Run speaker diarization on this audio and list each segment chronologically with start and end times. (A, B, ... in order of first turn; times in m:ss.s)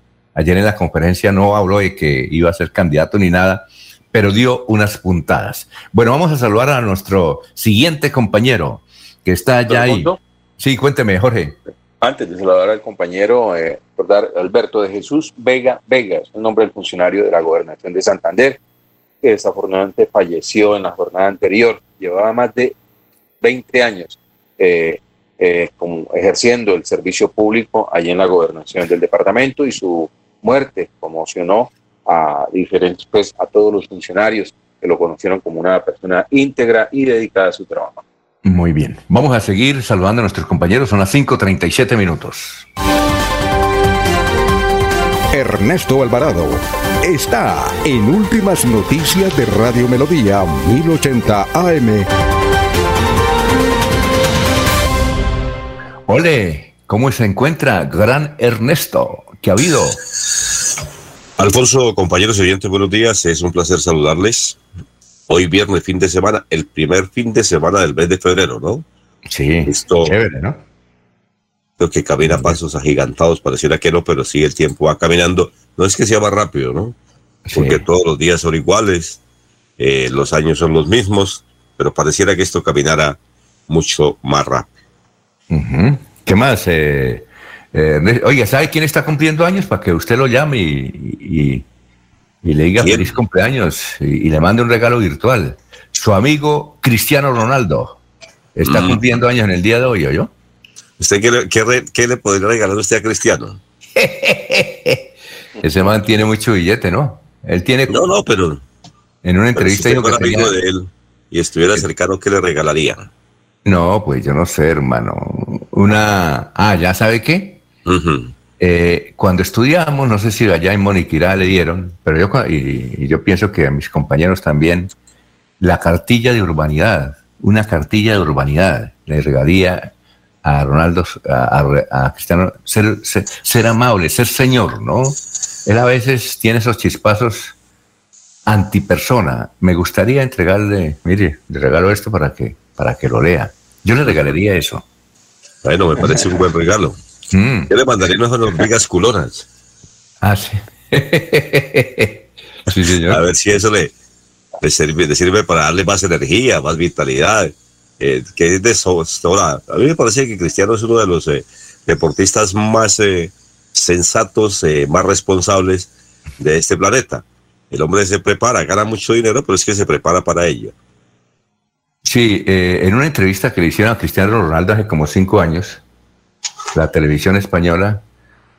0:00.3-0:11.6 A
0:09.7-0:10.2 B
0:12.0-0:18.6 B
0:19.2-0:22.7 B
0:23.4-0:38.0 B
0:38.4-0:42.7 A
0:45.3-0:52.1 C
0:56.1-1:00.0 A
1:01.4-1:04.6 D
1:05.3-1:08.8 D
1:09.3-1:10.6 A
1:09.6-1:10.1 D
1:11.8-1:16.9 D
1:12.2-1:12.6 A
1:17.5-1:17.8 A
1:17.5-1:19.2 D
1:19.8-1:24.7 D
1:25.5-1:31.6 A
1:32.4-1:38.0 A
1:32.8-1:33.1 D
1:38.6-1:40.3 A
1:38.6-1:39.0 D
1:41.0-1:43.6 D
1:44.0-1:45.0 A
1:45.6-1:48.0 A
1:47.9-1:48.6 D
1:49.2-1:50.6 A
1:49.6-1:53.1 D
1:53.6-1:57.6 A
1:57.8-1:58.3 D
1:58.6-2:04.9 A
2:05.6-2:09.9 A
2:10.4-2:17.5 A
2:18.4-2:24.8 A
2:25.6-2:27.0 D
2:27.3-2:27.7 A
2:27.7-2:29.4 D
2:30.2-2:33.6 A
2:33.1-2:33.9 D
2:34.6-2:50.7 D
2:52.0-2:55.8 A
2:56.7-2:58.0 A